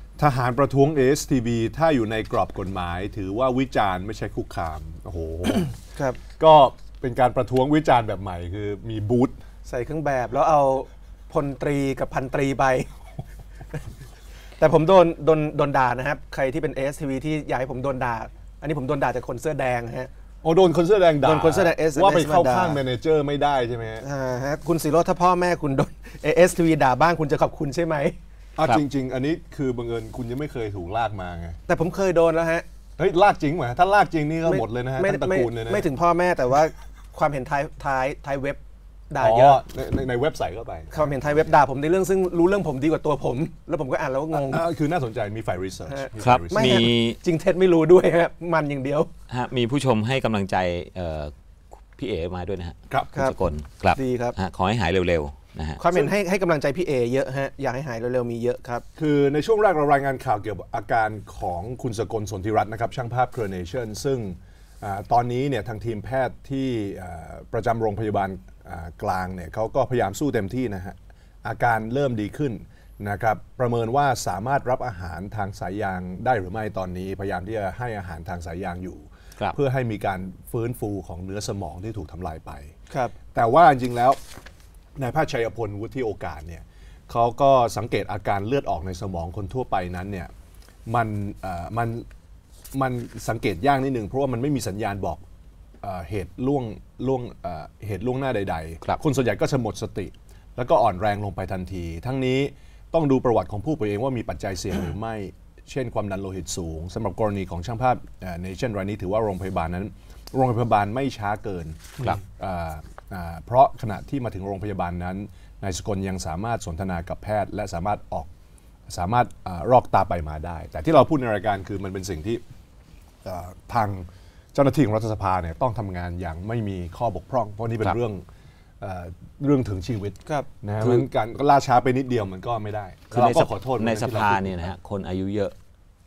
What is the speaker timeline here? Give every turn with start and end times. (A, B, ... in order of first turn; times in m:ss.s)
0:00.2-0:05.7 A
0:06.0-0:06.2 B
0:06.4-0:09.4 A
0:09.7-0:12.9 B
0:14.6-0:20.1 B
0:20.4-0:24.0 A
0:21.2-0:22.8 B
0:24.0-0:28.2 B
0:28.6-0:31.6 A
0:31.7-0:32.6 B
0:33.0-0:35.9 A
0:34.5-0:39.6 B
0:39.2-0:41.2 A
0:40.9-0:44.6 B
0:44.4-0:46.8 A
0:45.9-0:49.1 B
0:46.2-0:47.2 C
0:49.3-0:51.3 C
0:51.9-0:55.8 C
0:54.0-0:54.4 B
0:55.8-0:58.8 B
0:59.0-1:22.7 A
1:22.9-1:23.2 B
1:23.3-1:24.2 A
1:25.0-1:30.3 A
1:30.9-1:32.1 A
1:32.7-1:35.2 A
1:35.8-1:58.3 A
1:58.9-2:02.4 A
2:03.2-2:08.2 A
2:08.8-2:14.7 A
2:10.8-2:11.1 C
2:13.1-2:15.5 C